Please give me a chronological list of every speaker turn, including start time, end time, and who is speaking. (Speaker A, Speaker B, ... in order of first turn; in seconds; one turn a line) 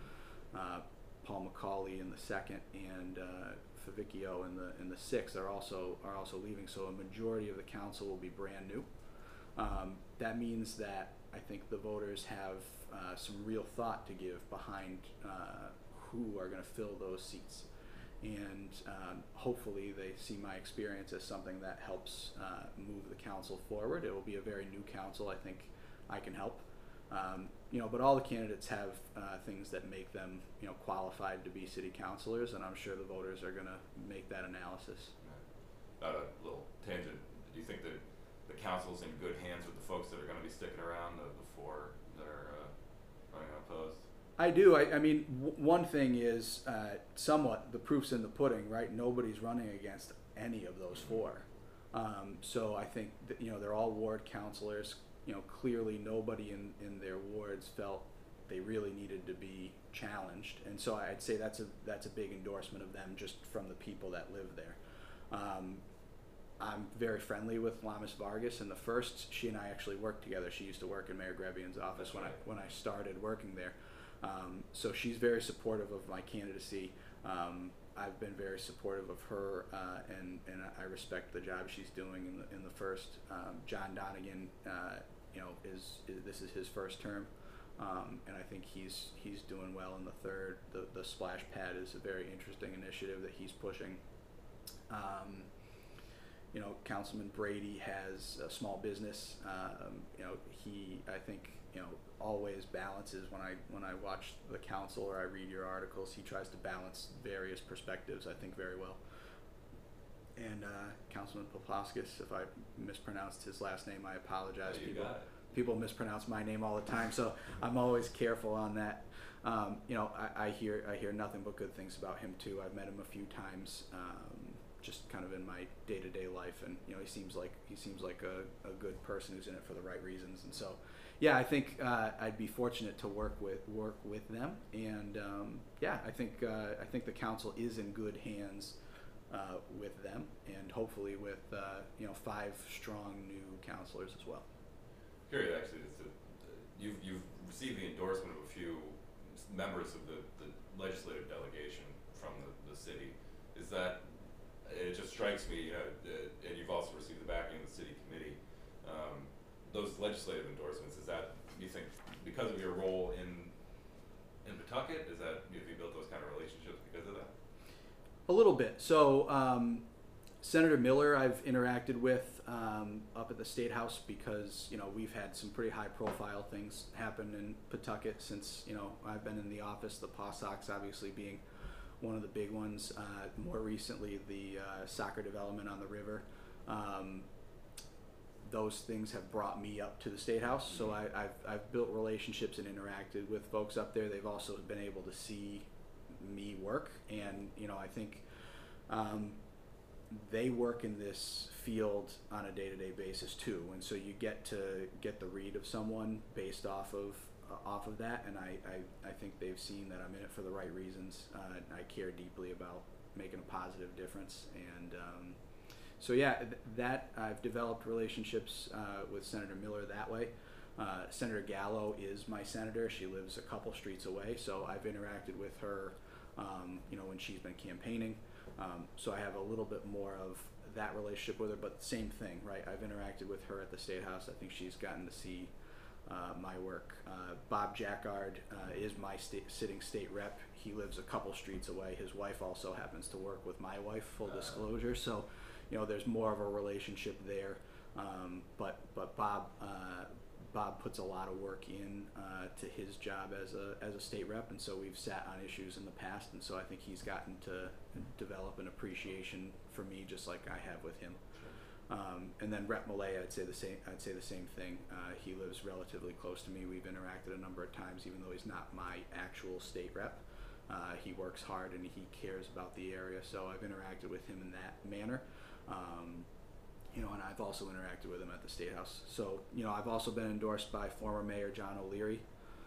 Speaker A: 0.5-8.9
Speaker A: 9.6-17.7
Speaker A: 18.2-35.1
Speaker B: 36.0-42.7
Speaker B: 43.3-44.0
Speaker A: 44.4-64.8
Speaker A: 65.3-65.8
Speaker A: 66.6-94.0
Speaker B: 72.0-72.4
Speaker A: 94.9-95.5
Speaker A: 96.5-109.0
Speaker A: 110.3-138.8
Speaker B: 114.6-115.3
Speaker A: 139.3-144.5
Speaker B: 145.3-163.5
Speaker B: 164.4-167.3
Speaker A: 168.3-169.8
Speaker A: 170.4-181.4
Speaker A: 182.0-187.3
Speaker A: 188.4-198.2
Speaker A: 198.9-199.4
Speaker A: 200.1-215.4
Speaker A: 216.0-235.5
Speaker A: 236.1-261.2
Speaker B: 244.3-244.6
Speaker A: 261.9-276.3
Speaker A: 276.9-282.2